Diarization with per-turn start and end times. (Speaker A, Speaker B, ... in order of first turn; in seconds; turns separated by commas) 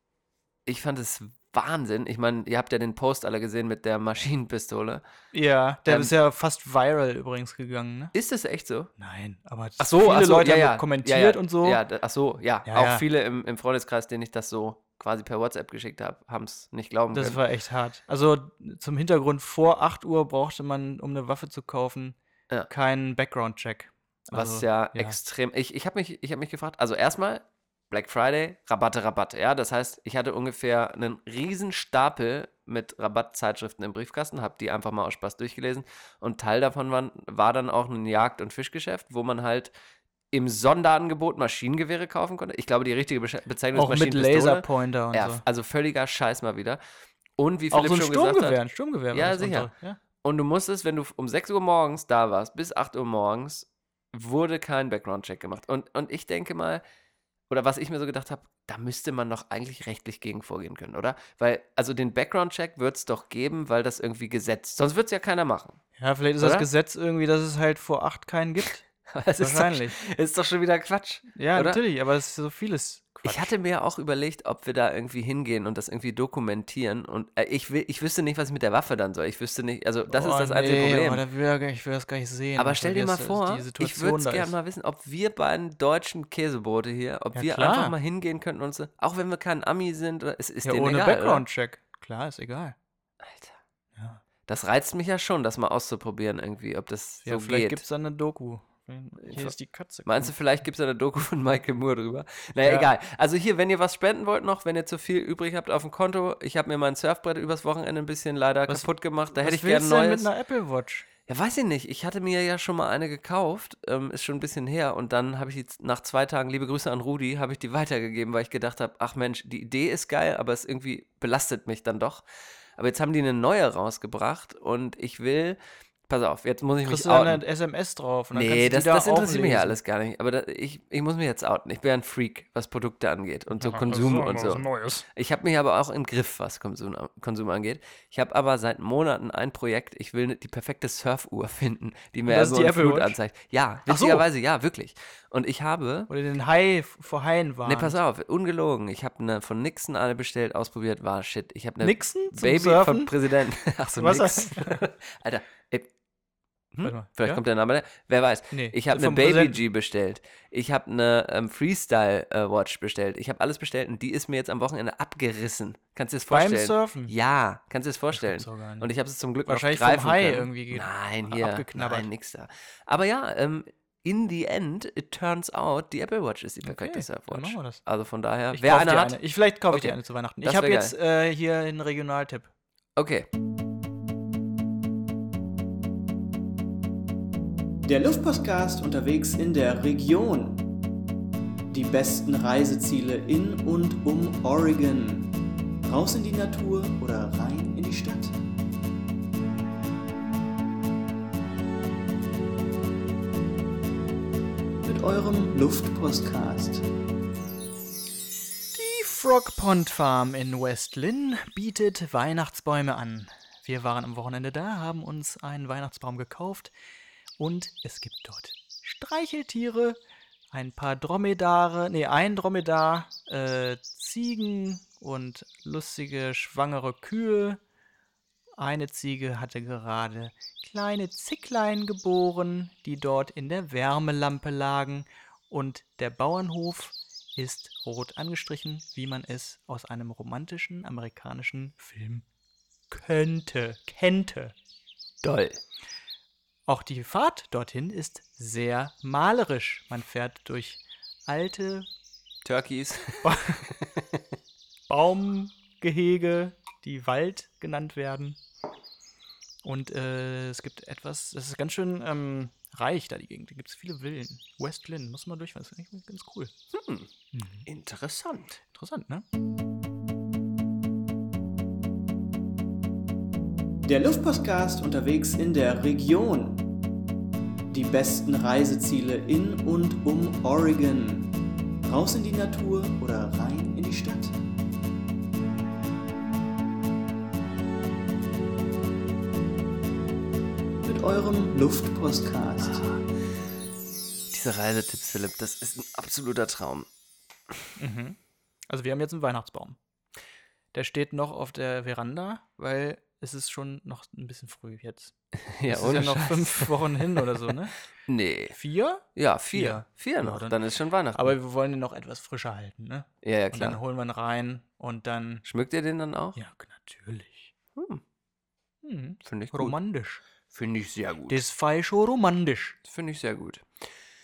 Speaker A: 0.7-5.0, Speaker B: 5.3-8.1, Speaker A: 5.8-6.1, Speaker A: 8.1-8.9, Speaker B: 9.0-11.8, Speaker A: 9.8-17.4, Speaker B: 12.7-13.0, Speaker B: 17.1-25.2, Speaker A: 24.3-39.7, Speaker A: 40.3-46.8, Speaker B: 43.7-45.4, Speaker A: 47.4-48.6, Speaker B: 47.7-50.0, Speaker A: 49.1-56.8, Speaker A: 57.5-65.8, Speaker B: 66.0-68.8, Speaker A: 66.4-66.7, Speaker A: 69.1-71.8, Speaker B: 69.4-70.0, Speaker B: 71.3-73.5, Speaker A: 73.2-81.2, Speaker B: 80.1-84.5, Speaker A: 82.6-91.4, Speaker B: 87.3-87.9, Speaker B: 90.6-92.8, Speaker A: 93.2-93.6, Speaker B: 94.0-94.2, Speaker A: 94.5-97.8, Speaker B: 97.2-100.3, Speaker A: 99.2-99.5, Speaker A: 100.0-110.3, Speaker B: 102.6-102.9, Speaker B: 108.7-111.1, Speaker A: 111.3-122.2, Speaker A: 122.8-127.4, Speaker B: 126.8-129.8, Speaker A: 128.3-146.1, Speaker B: 133.5-135.1, Speaker B: 142.3-143.2, Speaker B: 143.9-144.2, Speaker B: 146.1-148.0, Speaker A: 147.7-155.9, Speaker B: 151.8-153.1, Speaker B: 153.8-154.8, Speaker A: 156.7-180.9, Speaker B: 156.8-157.4, Speaker B: 158.5-159.6, Speaker B: 166.3-167.1, Speaker B: 168.1-168.9, Speaker B: 169.5-172.1, Speaker B: 176.6-177.8, Speaker B: 178.5-182.5, Speaker A: 183.0-183.3, Speaker C: 187.8-190.6, Speaker C: 191.7-195.3, Speaker C: 195.8-198.4, Speaker C: 204.8-206.8, Speaker B: 208.7-216.7, Speaker B: 217.4-220.0, Speaker B: 220.5-227.6, Speaker B: 228.6-242.2, Speaker B: 242.9-244.6, Speaker A: 245.2-245.6, Speaker B: 246.7-251.9, Speaker A: 252.4-253.3, Speaker B: 253.2-253.7, Speaker B: 254.9-258.4, Speaker B: 259.6-266.5, Speaker A: 266.7-267.1, Speaker B: 267.3-267.7, Speaker A: 267.7-268.6, Speaker B: 268.7-269.2, Speaker C: 273.8-276.6, Speaker C: 277.7-281.3, Speaker C: 281.8-284.4, Speaker C: 290.8-292.9, Speaker A: 292.6-293.1, Speaker A: 294.3-296.9, Speaker B: 297.8-298.2, Speaker B: 298.7-299.8, Speaker B: 300.7-305.1, Speaker A: 305.5-307.0, Speaker B: 305.7-307.8, Speaker A: 308.1-308.6, Speaker B: 308.5-310.6, Speaker A: 309.1-311.3, Speaker B: 311.1-315.4, Speaker A: 313.2-313.8, Speaker A: 315.4-316.4, Speaker B: 316.4-317.5, Speaker A: 317.8-318.0, Speaker B: 318.8-320.2, Speaker A: 319.2-319.8, Speaker A: 320.5-321.4, Speaker B: 321.3-322.8, Speaker A: 322.8-323.7